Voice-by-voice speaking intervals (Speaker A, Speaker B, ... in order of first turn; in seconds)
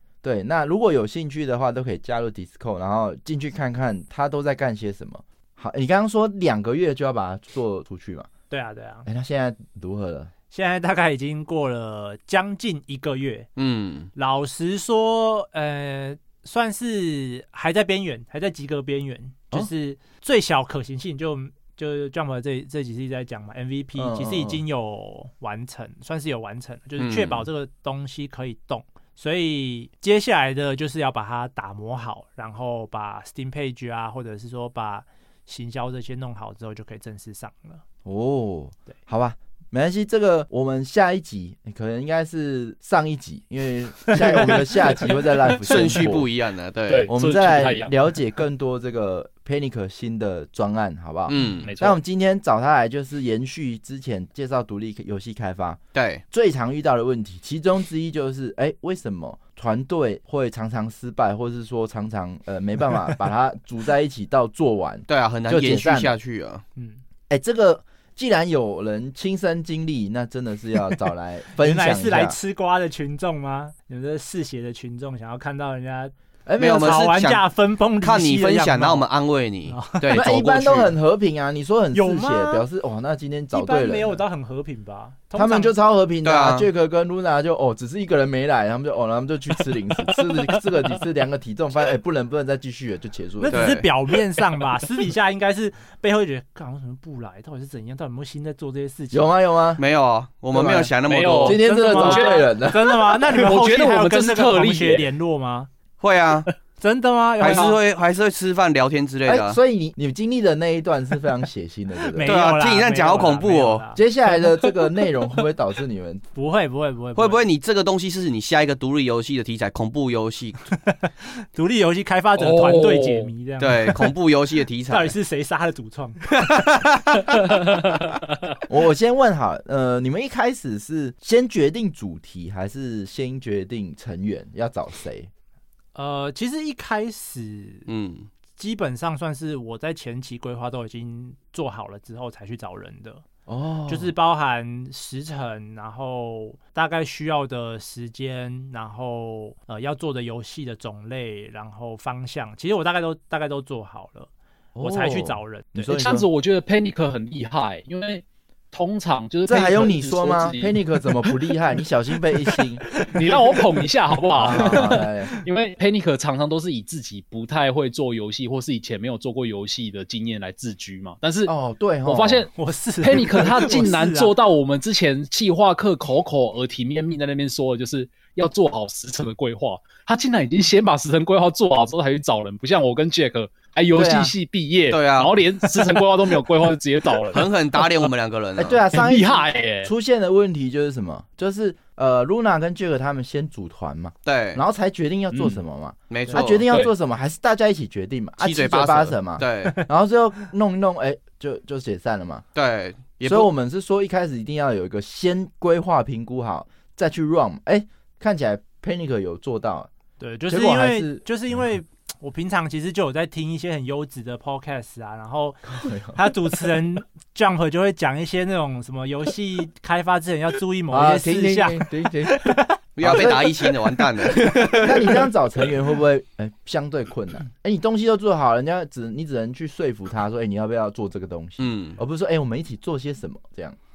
Speaker A: 0.2-8.3, 9.1-10.3, 23.9-24.6, 38.0-46.2, 47.1-55.8, 56.3-66.1, 67.3-72.4, 76.5-77.0, 80.1-84.2, 85.3-93.7, 99.1-99.8, 100.5-102.9, 107.4-107.7, 109.2-112.3, 114.0-116.2, 128.7-135.3, 143.5-144.1, 154.8-156.3, 159.4-162.9, 164.4-165.3, 171.4-172.5, 173.1-173.9, 183.9-184.3, 188.6-202.4, 203.2-209.9, 210.5-211.6, 215.7-216.3, 220.9-223.7, 224.7-233.8
Speaker B: 8.5-9.1, 10.5-13.5, 14.2-37.8, 66.8-67.0, 71.6-79.1, 79.7-80.3, 81.9-82.6, 83.5-85.7, 93.4-99.3, 101.6-105.7, 106.8-107.8, 112.1-114.0, 116.3-117.4, 120.7-124.1, 124.9-126.2, 135.9-137.9, 138.6-143.2, 143.9-155.9, 164.5-165.4, 172.6-174.3, 210.2-223.4
Speaker C: 13.6-14.1, 27.0-27.5, 45.6-47.1, 51.3-51.7, 55.9-56.2, 65.1-66.6, 76.6-77.4, 78.0-80.9, 86.2-86.7, 93.5-93.9, 99.8-101.6, 106.0-106.5, 107.4-109.6, 112.2-113.8, 117.1-120.7, 123.6-125.1, 126.3-127.6, 137.9-138.3, 184.9-185.4, 187.3-188.8, 194.2-194.6, 196.1-196.7, 198.4-199.8, 202.6-203.5, 222.9-225.3, 231.6-232.0
Speaker D: 44.1-44.6, 45.6-46.1, 46.9-47.9, 51.4-52.0, 90.1-90.5, 101.0-105.1, 122.4-123.3, 155.9-161.4, 163.0-171.5, 172.1-188.1, 188.9-189.9, 195.3-195.6